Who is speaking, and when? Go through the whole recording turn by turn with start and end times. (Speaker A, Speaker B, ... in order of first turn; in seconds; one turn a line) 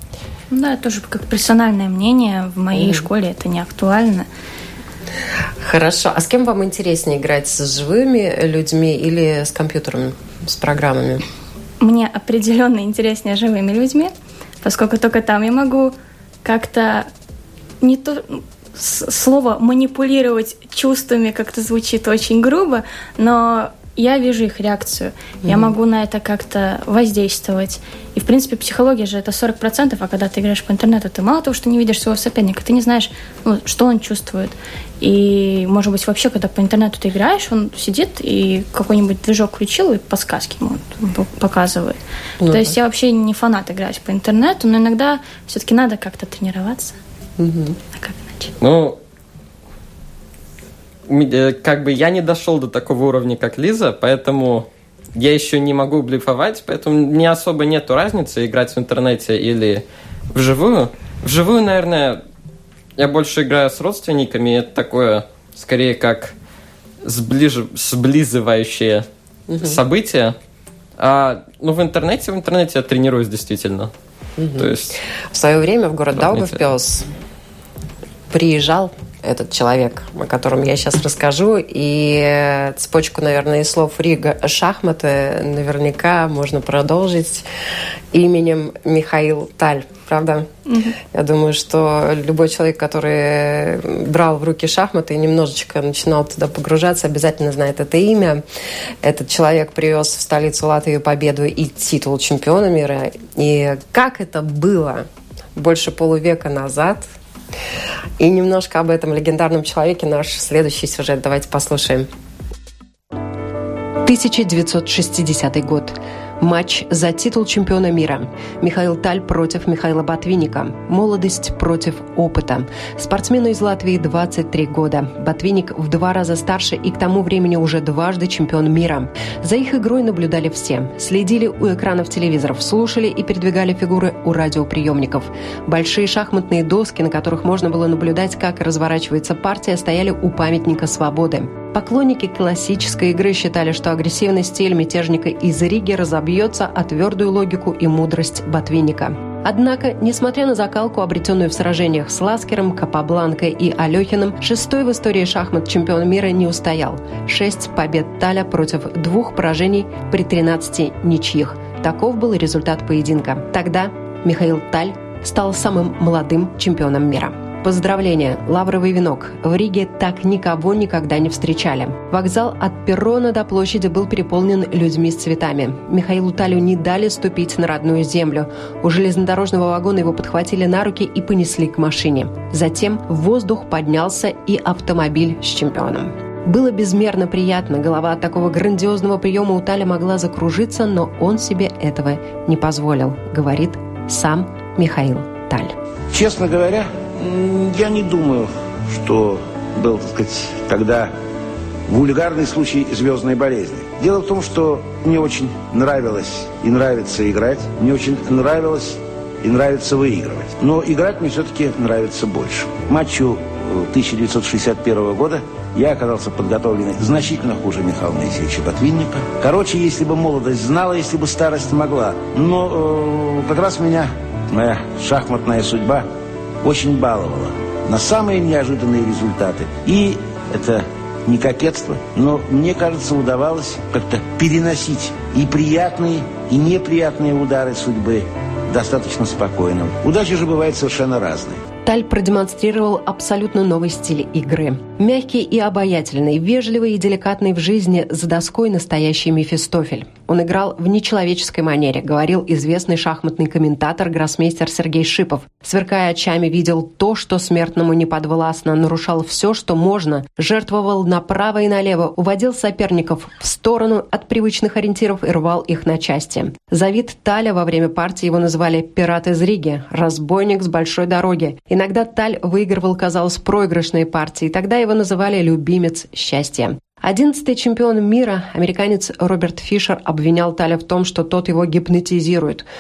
Speaker A: 0.5-4.3
Speaker B: 2.8-3.0
Speaker B: 5.6-11.2
Speaker A: 11.8-17.1
Speaker A: 17.8-47.0
Speaker B: 25.5-25.7
Speaker B: 42.4-42.8
Speaker B: 47.4-47.8
Speaker A: 48.0-48.5
Speaker C: 48.6-49.0
Speaker C: 51.1-62.2
Speaker C: 63.0-66.3
Speaker C: 67.0-69.1
Speaker B: 69.5-69.8
Speaker C: 69.6-70.3
Speaker C: 71.0-73.9
Speaker B: 74.4-77.1
Speaker C: 74.6-74.9
Speaker C: 76.2-76.6
Speaker B: 78.3-87.5
Speaker B: 88.1-90.5
Speaker A: 90.7-91.0
Speaker B: 91.0-98.4
Speaker B: 99.0-107.0
Speaker B: 108.2-112.1
Speaker D: 114.0-195.8
Speaker E: 196.1-201.1
Speaker E: 201.9-226.1
Speaker E: 226.6-241.6
Speaker D: 241.8-282.7